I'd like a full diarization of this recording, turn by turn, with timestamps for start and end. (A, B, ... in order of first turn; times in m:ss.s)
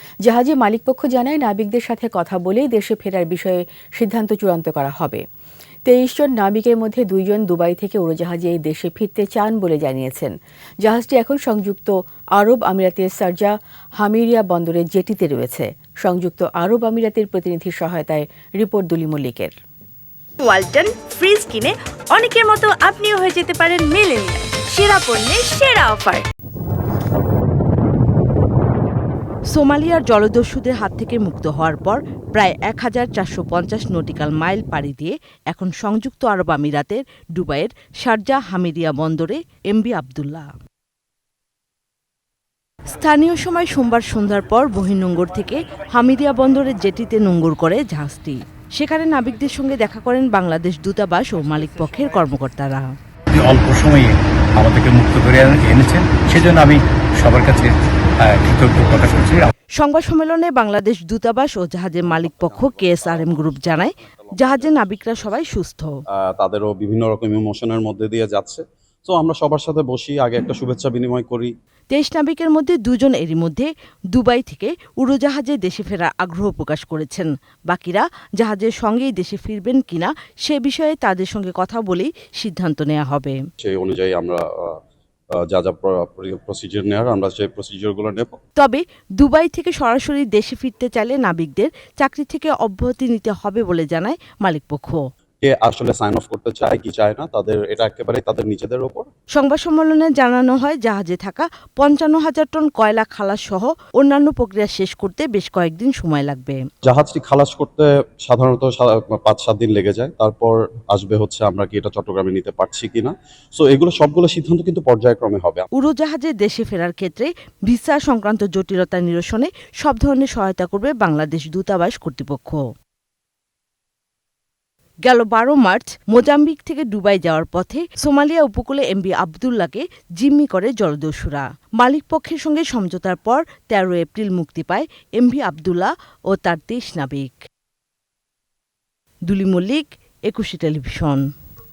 0:00.2-0:05.2 A
0:05.8-0:10.3 A
0:10.8-0:19.5 A
0:20.4-0:26.2 B
0:29.5-0:40.5 C
0:42.9-0:52.9 C
0:53.3-0:59.5 D
0:59.8-1:05.9 C
1:02.0-1:05.5 E
1:06.2-1:11.5 E
1:11.9-1:23.4 C
1:23.6-1:24.8 E
1:25.4-1:28.4 E
1:28.6-1:35.0 C
1:35.4-1:39.0 E
1:39.3-1:46.6 C
1:46.8-1:55.7 E
1:55.8-2:02.6 C
2:05.0-2:17.4 C
2:19.3-2:21.2 C